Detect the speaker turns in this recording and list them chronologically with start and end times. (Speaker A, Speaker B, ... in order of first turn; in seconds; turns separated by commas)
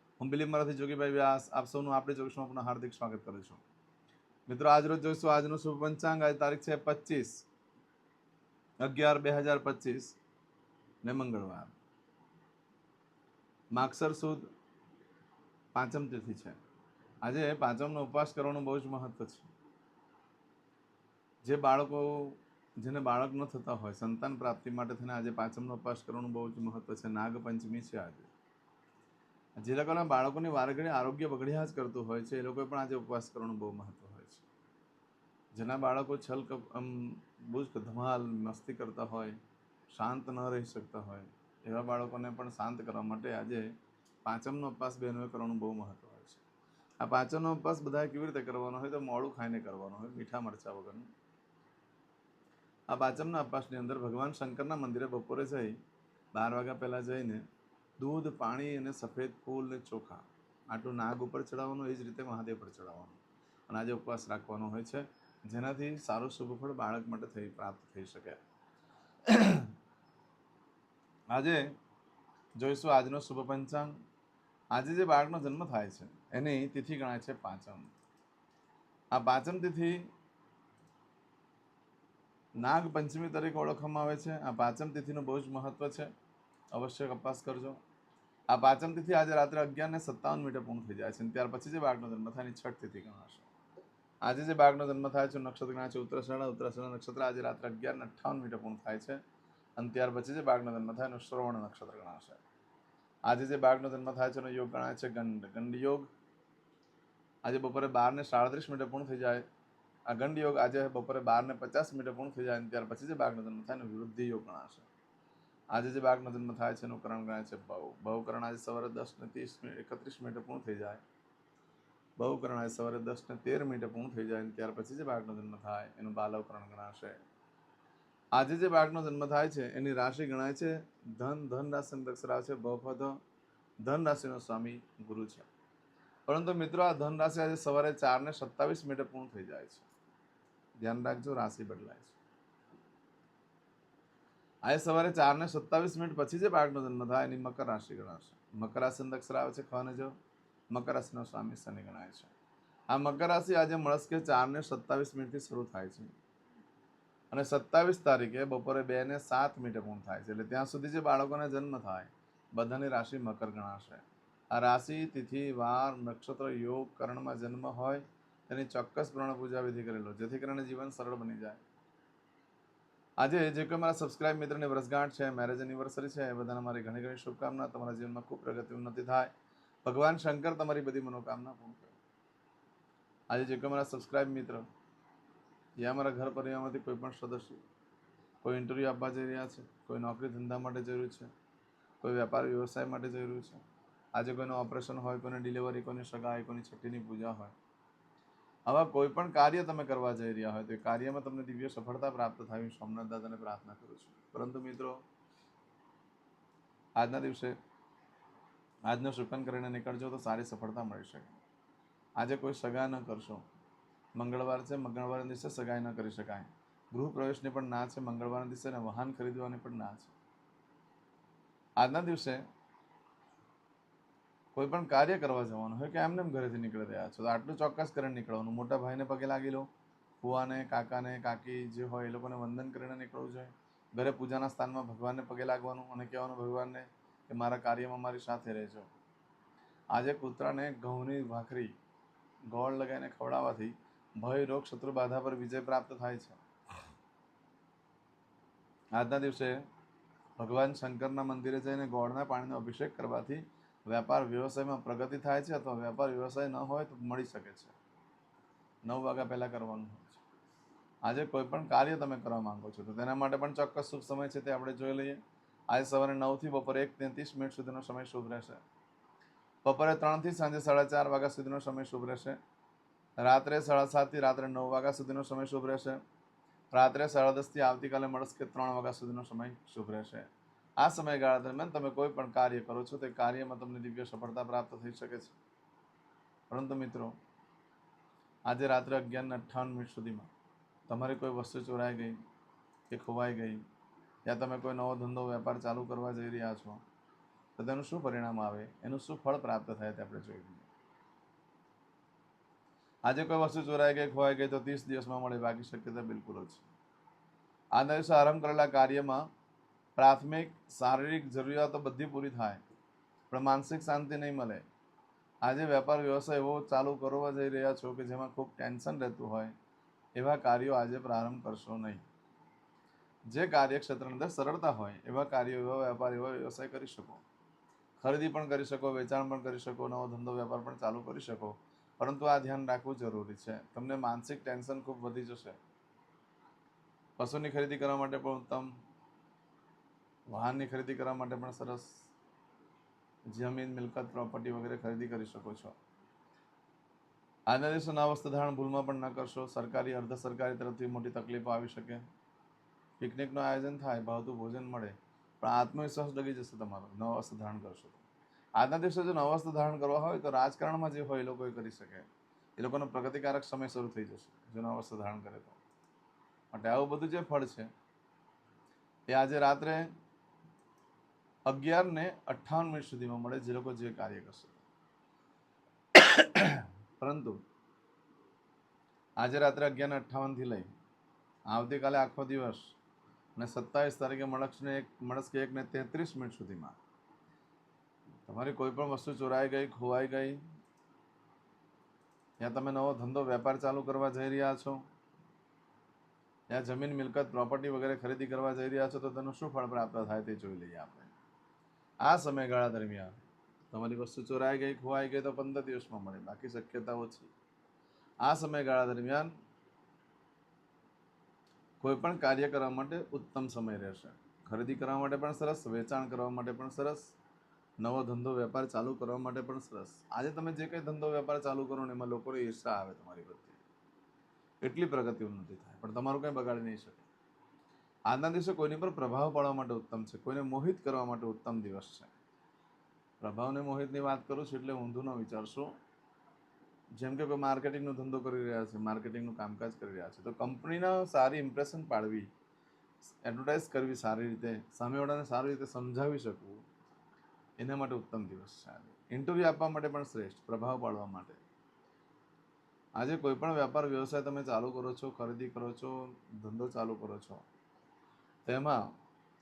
Speaker A: 0.2-3.6, Speaker A: 4.5-7.4, Speaker A: 8.8-10.2, Speaker A: 11.0-11.8, Speaker A: 13.7-14.4, Speaker A: 15.7-16.6, Speaker A: 17.2-19.5, Speaker A: 21.4-28.3, Speaker A: 29.6-34.4, Speaker A: 35.5-39.4, Speaker A: 39.9-43.7, Speaker A: 44.2-46.4, Speaker A: 47.0-51.1, Speaker A: 52.9-55.8, Speaker A: 56.3-57.4, Speaker A: 58.0-68.4, Speaker A: 69.3-69.7, Speaker A: 71.3-71.6, Speaker A: 72.6-73.9, Speaker A: 74.7-77.9, Speaker A: 79.1-80.0, Speaker A: 82.6-86.1, Speaker A: 86.7-87.8, Speaker A: 88.5-93.5, Speaker A: 94.2-99.2, Speaker A: 99.8-102.4, Speaker A: 103.3-106.1, Speaker A: 107.4-109.4, Speaker A: 110.1-114.9, Speaker A: 115.7-121.0, Speaker A: 122.2-127.2, Speaker A: 128.3-133.1, Speaker A: 133.8-135.5, Speaker A: 136.3-139.8, Speaker A: 140.8-142.2, Speaker A: 144.7-150.1, Speaker A: 150.7-152.3, Speaker A: 152.9-156.1, Speaker A: 157.3-171.6, Speaker A: 173.2-179.3, Speaker A: 179.8-181.9, Speaker A: 183.3-184.6, Speaker A: 185.8-187.6, Speaker A: 188.4-191.3, Speaker A: 192.0-193.6, Speaker A: 194.2-197.5, Speaker A: 198.7-204.9, Speaker A: 207.0-207.5, Speaker A: 208.9-211.3, Speaker A: 212.2-213.4, Speaker A: 214.2-220.1, Speaker A: 221.8-222.4, Speaker A: 224.5-229.7, Speaker A: 230.2-238.9, Speaker A: 239.9-241.7, Speaker A: 242.5-246.4, Speaker A: 248.9-249.6, Speaker A: 250.4-257.7, Speaker A: 258.9-260.2, Speaker A: 261.1-265.2, Speaker A: 265.7-268.6, Speaker A: 269.6-272.4, Speaker A: 273.2-276.0, Speaker A: 276.7-280.2, Speaker A: 280.8-285.4, Speaker A: 286.5-287.1, Speaker A: 288.5-290.3, Speaker A: 290.9-292.1, Speaker A: 292.9-293.6, Speaker A: 294.3-296.8, Speaker A: 297.6-300.7, Speaker A: 303.1-306.7, Speaker A: 307.7-309.2, Speaker A: 310.0-312.6, Speaker A: 313.3-314.6, Speaker A: 315.4-319.5, Speaker A: 320.2-322.0, Speaker A: 323.3-327.2, Speaker A: 328.0-335.6, Speaker A: 337.2-338.7, Speaker A: 340.3-341.9, Speaker A: 343.3-345.7, Speaker A: 347.5-352.0, Speaker A: 353.0-358.0, Speaker A: 358.6-362.1, Speaker A: 362.6-365.6, Speaker A: 366.5-367.7, Speaker A: 369.1-369.8, Speaker A: 371.5-374.6, Speaker A: 375.9-377.4, Speaker A: 379.2-380.7, Speaker A: 381.5-382.7, Speaker A: 383.4-386.8, Speaker A: 388.3-390.4, Speaker A: 392.4-394.8, Speaker A: 396.5-401.1, Speaker A: 402.0-403.1, Speaker A: 403.7-407.3, Speaker A: 408.2-409.3, Speaker A: 411.8-417.1, Speaker A: 417.8-423.6, Speaker A: 424.6-427.1, Speaker A: 428.1-432.1, Speaker A: 433.2-435.7, Speaker A: 437.0-442.3, Speaker A: 443.2-446.6, Speaker A: 447.6-451.4, Speaker A: 453.0-457.4, Speaker A: 458.5-458.8